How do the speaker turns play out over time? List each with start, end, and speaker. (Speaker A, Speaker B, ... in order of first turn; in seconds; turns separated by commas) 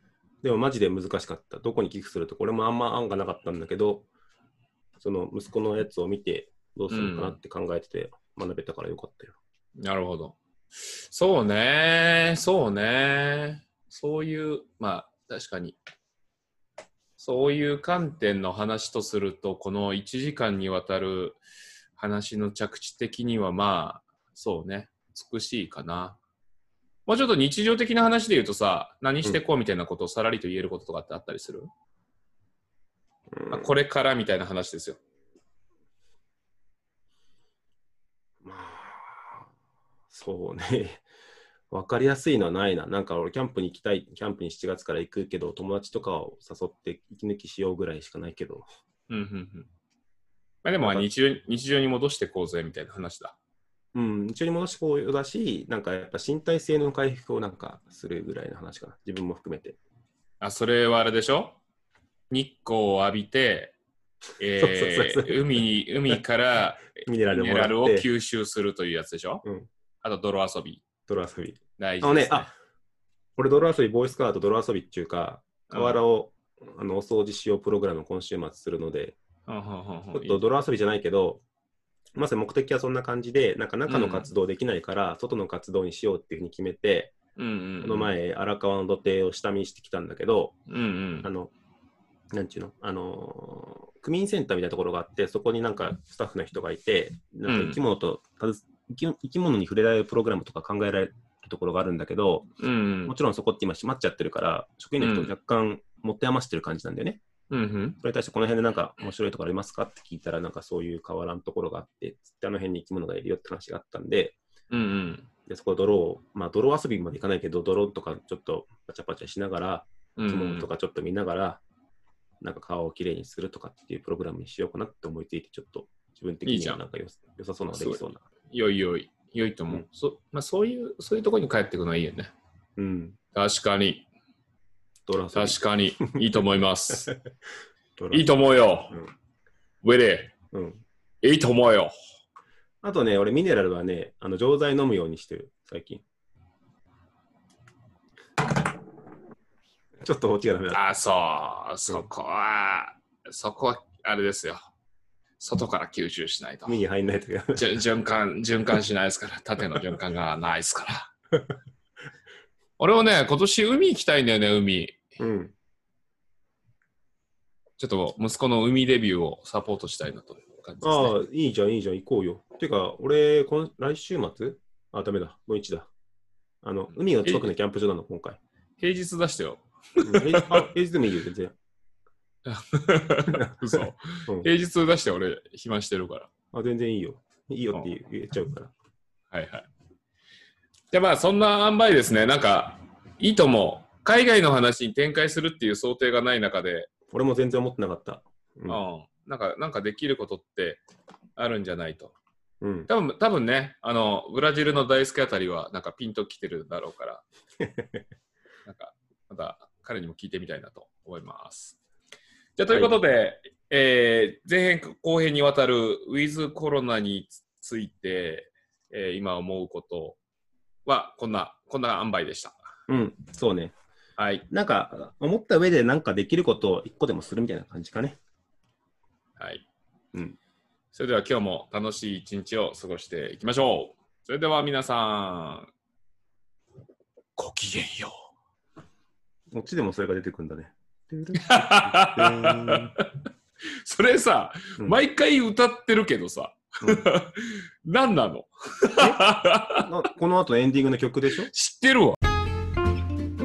Speaker A: 0.4-4.0, Speaker A: 5.0-9.3, Speaker B: 6.9-7.4, Speaker B: 9.8-15.8, Speaker B: 17.2-21.4, Speaker B: 21.9-26.2, Speaker B: 27.1-31.7, Speaker A: 33.3-33.7, Speaker B: 33.5-35.0, Speaker A: 38.4-39.5, Speaker A: 40.1-41.0, Speaker A: 41.7-48.6, Speaker B: 49.1-49.7, Speaker B: 50.6-53.4, Speaker A: 50.8-51.0, Speaker A: 53.9-59.8, Speaker B: 60.4-61.6, Speaker B: 62.3-63.8, Speaker B: 64.4-69.4, Speaker A: 64.6-65.4, Speaker A: 67.0-68.1, Speaker A: 69.4-69.7, Speaker B: 70.0-70.8, Speaker A: 71.1-72.5, Speaker B: 71.8-72.5, Speaker A: 73.4-79.2, Speaker B: 75.7-76.0, Speaker B: 79.5-80.4, Speaker A: 80.1-81.4, Speaker A: 82.1-87.1, Speaker B: 83.9-84.3, Speaker B: 87.4-88.1, Speaker A: 87.8-90.5, Speaker B: 90.7-91.3, Speaker A: 91.2-91.5, Speaker A: 92.3-102.5, Speaker B: 97.5-97.8, Speaker B: 102.6-103.1, Speaker A: 103.0-107.2, Speaker B: 105.0-105.3, Speaker B: 107.5-108.0, Speaker A: 108.0-114.4, Speaker B: 114.7-115.3, Speaker A: 115.5-121.6, Speaker B: 120.2-120.7, Speaker A: 122.4-128.2, Speaker B: 126.4-126.8, Speaker B: 127.7-132.3, Speaker A: 132.8-133.2, Speaker B: 133.3-134.1, Speaker A: 135.1-135.6, Speaker B: 135.3-137.1, Speaker A: 138.0-138.3, Speaker B: 138.1-138.9, Speaker B: 139.8-140.3, Speaker A: 140.5-140.8, Speaker B: 141.2-141.9, Speaker A: 142.8-146.0, Speaker A: 150.0-150.8, Speaker B: 150.7-154.6, Speaker B: 155.4-156.8, Speaker A: 156.7-157.7, Speaker B: 157.6-161.1, Speaker B: 162.8-165.1, Speaker A: 165.2-165.5, Speaker B: 167.8-171.2, Speaker A: 170.8-175.9, Speaker A: 176.6-178.4, Speaker B: 177.2-177.5, Speaker B: 178.8-180.7, Speaker A: 180.0-181.5, Speaker B: 182.4-186.3, Speaker A: 183.3-184.5, Speaker A: 186.5-188.7, Speaker B: 189.3-189.7, Speaker B: 190.9-196.9, Speaker A: 197.1-198.8, Speaker B: 198.7-200.8, Speaker B: 201.4-202.1, Speaker A: 202.6-202.9, Speaker B: 202.9-207.2, Speaker A: 207.6-208.0, Speaker B: 208.7-211.8, Speaker B: 212.6-220.2, Speaker A: 212.7-213.0, Speaker B: 220.8-222.6, Speaker A: 222.9-223.7, Speaker B: 224.2-224.4, Speaker A: 224.5-228.2, Speaker B: 229.4-229.6, Speaker B: 230.9-235.7, Speaker B: 237.4-238.1, Speaker A: 239.5-242.9, Speaker B: 241.3-243.2, Speaker B: 243.8-249.9, Speaker A: 249.8-251.5, Speaker B: 251.5-252.2